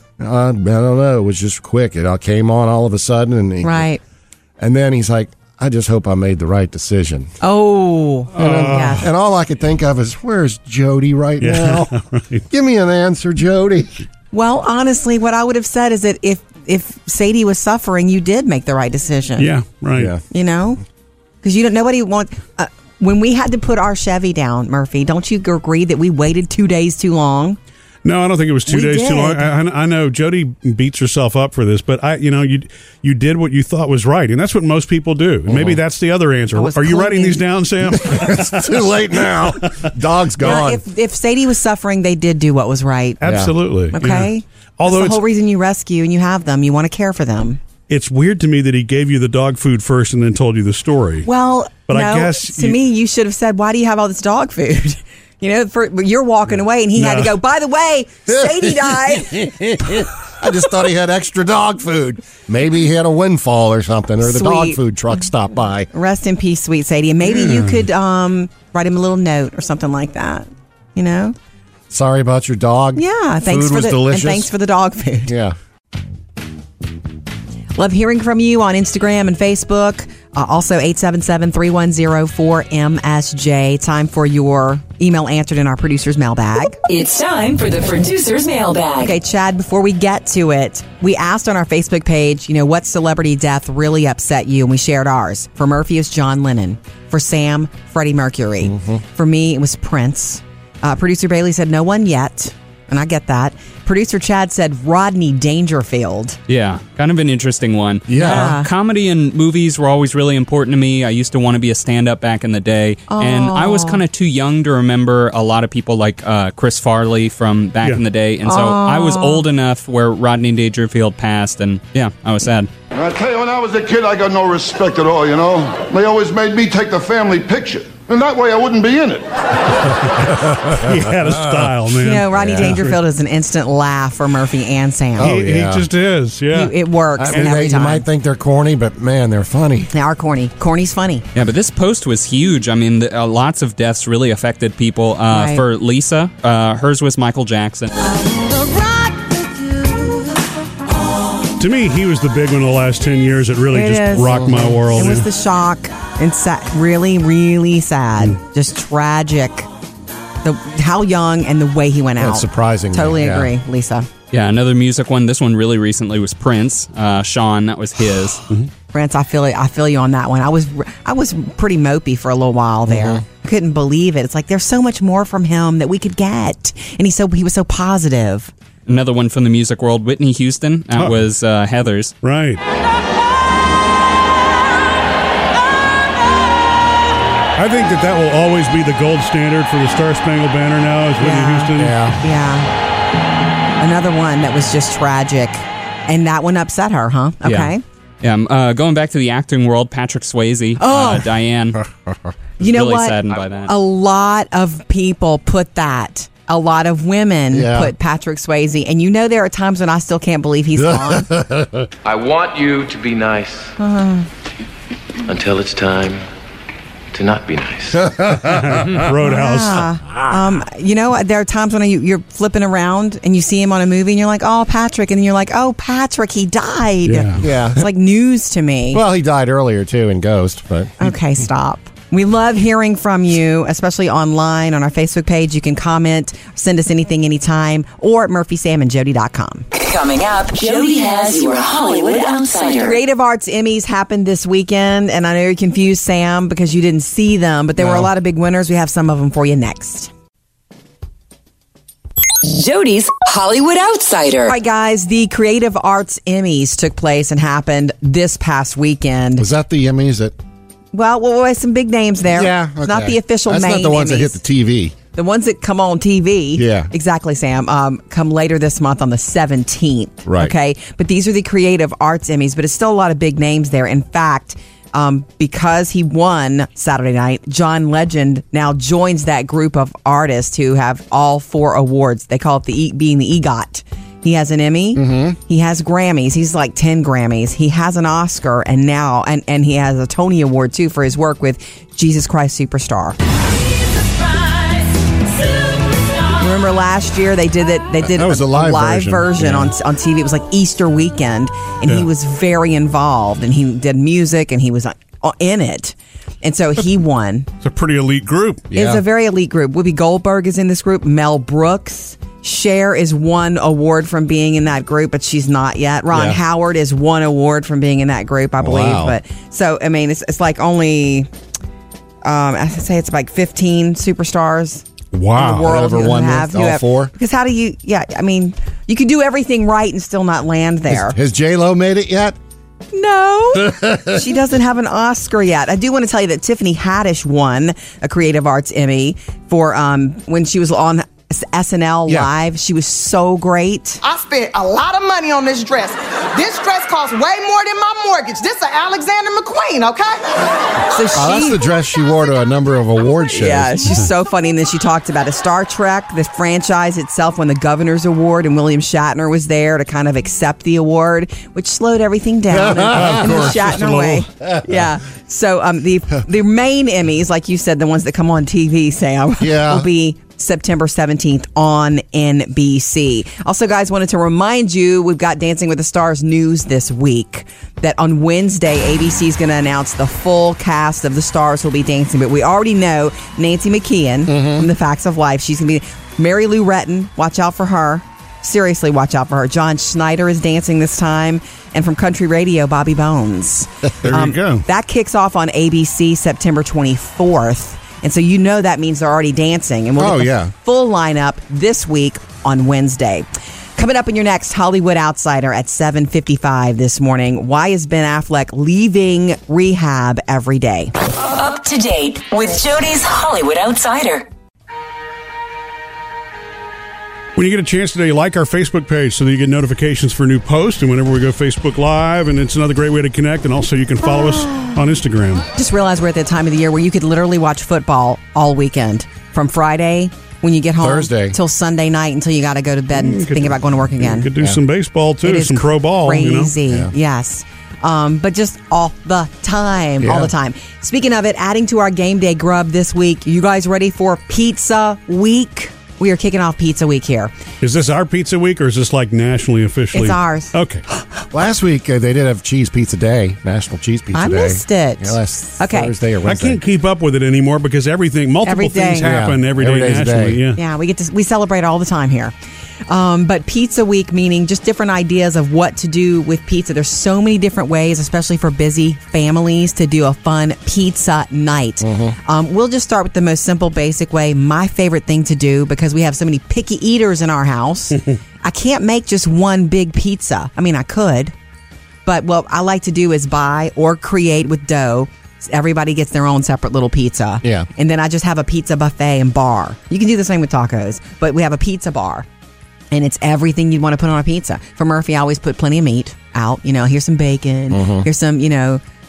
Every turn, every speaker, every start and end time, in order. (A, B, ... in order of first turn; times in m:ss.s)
0:00.2-0:03.9 A
0:03.6-0:04.0 B
0:04.6-0:07.3 A
0:07.4-0:09.1 B
0:08.3-0:09.0 C
0:08.4-0:11.9 A
0:11.4-0:12.4 C
0:12.5-0:14.0 A
0:14.3-0:19.5 B
0:19.4-0:20.1 C
0:19.9-0:20.2 A
0:20.3-0:20.8 B
0:21.4-0:27.6 B
0:28.0-0:38.8 C
0:28.7-0:29.5 B
0:35.5-0:35.8 A
0:36.5-0:37.4 B
0:37.9-0:40.8 A
0:40.4-0:43.2 B
0:43.2-0:45.2 C
0:43.2-0:43.5 A
0:43.9-0:47.6 B
0:47.9-0:51.3 C
0:51.2-0:59.5 B
0:51.9-0:52.8 C
0:56.9-0:57.3 C
0:58.3-1:05.9 A
1:04.2-1:04.8 B
1:05.9-1:11.3 B
1:07.3-1:07.8 C
1:11.9-1:14.5 A
1:13.0-1:15.3 B
1:15.3-1:15.6 A
1:17.8-1:26.8 B
1:26.8-1:29.1 D
1:29.0-1:46.4 B
1:38.6-1:39.0 A
1:46.5-2:02.7 E
1:48.1-1:48.6 A
1:48.2-1:48.7 B
1:53.1-1:54.0 B
1:58.4-1:59.4 B
2:02.9-2:09.6 F
2:10.0-2:13.0 C
2:11.9-2:15.3 B
2:12.3-2:12.8 A
2:15.2-2:15.9 A
2:15.2-2:16.8 C
2:16.5-2:18.0 B
2:17.2-2:19.9 A
2:19.9-2:21.2 B
2:21.3-2:27.9 E
2:25.3-2:25.6 B
2:28.1-2:30.4 B
2:31.6-2:35.3 C
2:33.7-2:39.7 B
2:34.3-2:34.8 A
2:40.4-2:44.1 B
2:42.2-2:43.5 A
2:44.3-2:48.4 E
2:48.9-2:58.5 B
2:52.9-2:53.2 A
2:58.8-3:02.1 E
3:02.2-3:02.6 C
3:07.6-3:12.0 C
3:11.2-3:12.7 B
3:11.8-3:12.2 A
3:13.8-3:17.8 B
3:17.4-3:21.8 E
3:20.8-3:21.2 B
3:22.0-3:22.3 A
3:22.6-3:31.3 B
3:22.6-3:23.7 E
3:27.5-3:27.9 A
3:30.8-3:31.9 A
3:32.0-3:33.7 G
3:33.8-3:34.3 B
3:35.2-3:36.2 G
3:37.1-3:38.2 G
3:38.0-3:38.7 A
3:38.4-3:39.9 C
3:39.2-3:49.0 B
3:47.0-3:47.4 C
3:47.4-3:47.8 A
3:48.9-3:51.0 A
3:51.0-3:59.7 B
3:59.7-4:03.0 D
4:02.8-4:10.1 B
4:12.4-4:14.5 D
4:14.4-4:19.5 B
4:19.4-4:20.4 A
4:20.9-4:24.4 B
4:22.3-4:24.9 A
4:25.1-4:53.2 B
4:26.6-4:26.9 A
4:30.2-4:30.5 A
4:45.0-4:45.4 A
4:56.4-5:07.5 B
4:58.0-4:59.7 A
5:07.6-5:08.7 C
5:08.7-5:09.0 A
5:08.7-5:21.3 B
5:16.1-5:16.4 A
5:18.6-5:19.2 A
5:22.2-5:31.2 B
5:25.1-5:25.6 C
5:25.4-5:27.1 A
5:30.9-5:32.4 A
5:32.9-5:44.0 B
5:33.5-5:34.2 A
5:44.0-5:50.4 H
5:50.9-5:51.6 B
5:51.1-5:53.9 A
5:53.3-6:50.9 B
6:02.5-6:03.7 A
6:02.9-6:04.2 C
6:09.4-6:09.9 A
6:24.3-6:24.7 A
6:34.0-6:34.6 C
6:40.0-6:40.5 A
6:51.1-6:54.3 D
6:57.4-7:05.4 C
7:04.0-7:04.8 B
7:05.5-7:14.3 B
7:10.8-7:11.4 A
7:12.9-7:16.5 C
7:15.2-7:27.3 B
7:20.0-7:20.3 A
7:27.6-7:30.8 C
7:29.9-7:30.5 B
7:31.3-7:36.6 A
7:34.1-7:35.9 B
7:36.2-7:40.6 C
7:38.4-7:39.1 B
7:39.0-7:40.4 A
7:40.6-7:42.3 B
7:42.9-8:01.3 B
7:51.8-7:52.2 A
8:02.0-8:12.2 B
8:07.4-8:07.7 A
8:12.9-8:18.8 B
8:17.7-8:18.1 A